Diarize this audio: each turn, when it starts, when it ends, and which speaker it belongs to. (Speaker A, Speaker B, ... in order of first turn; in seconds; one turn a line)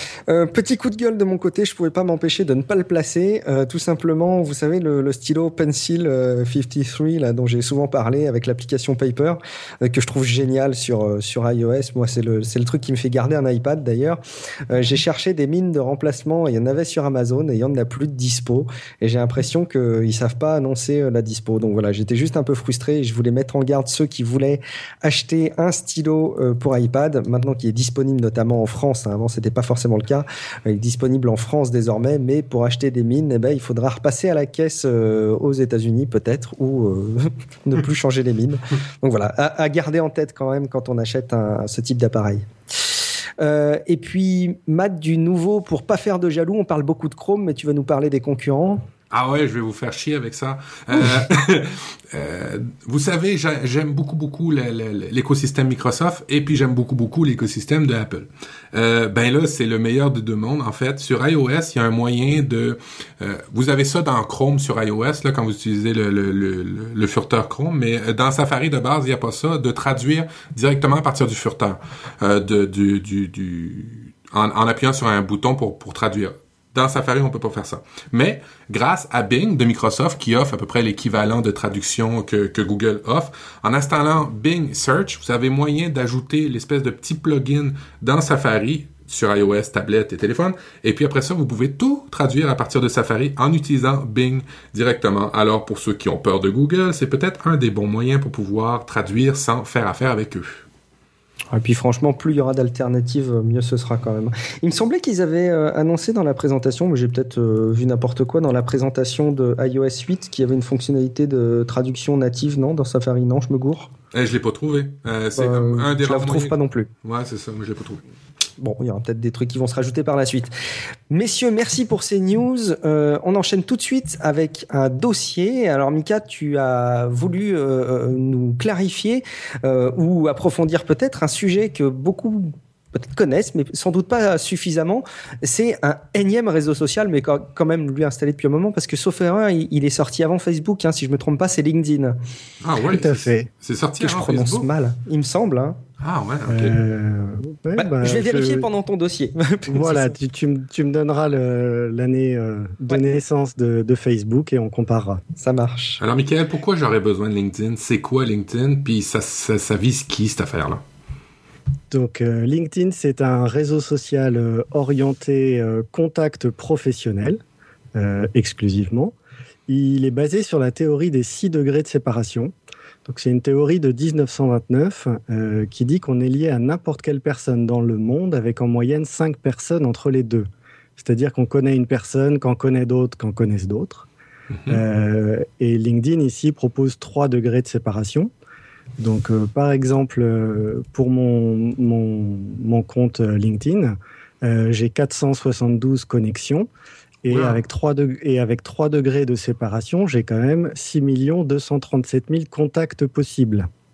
Speaker A: 0.3-48.9
Speaker B: 49.1-100.6
Speaker A: 101.5-113.9
Speaker B: 114.1-118.0
Speaker A: 115.4-116.9
Speaker A: 118.6-120.5
Speaker A: 121.1-142.2
Speaker B: 142.6-144.7
Speaker C: 142.8-143.5
Speaker A: 144.0-145.8
Speaker B: 146.0-146.8
Speaker C: 146.5-148.7
Speaker A: 147.8-150.1
Speaker C: 149.7-155.2
Speaker A: 155.4-156.0
Speaker B: 156.0-160.8
Speaker C: 161.9-167.4
Speaker C: 167.9-169.1
Speaker C: 169.7-172.5
Speaker C: 173.1-184.1
Speaker C: 184.7-188.3
Speaker C: 189.0-196.7
Speaker C: 197.2-203.7
Speaker B: 197.3-197.6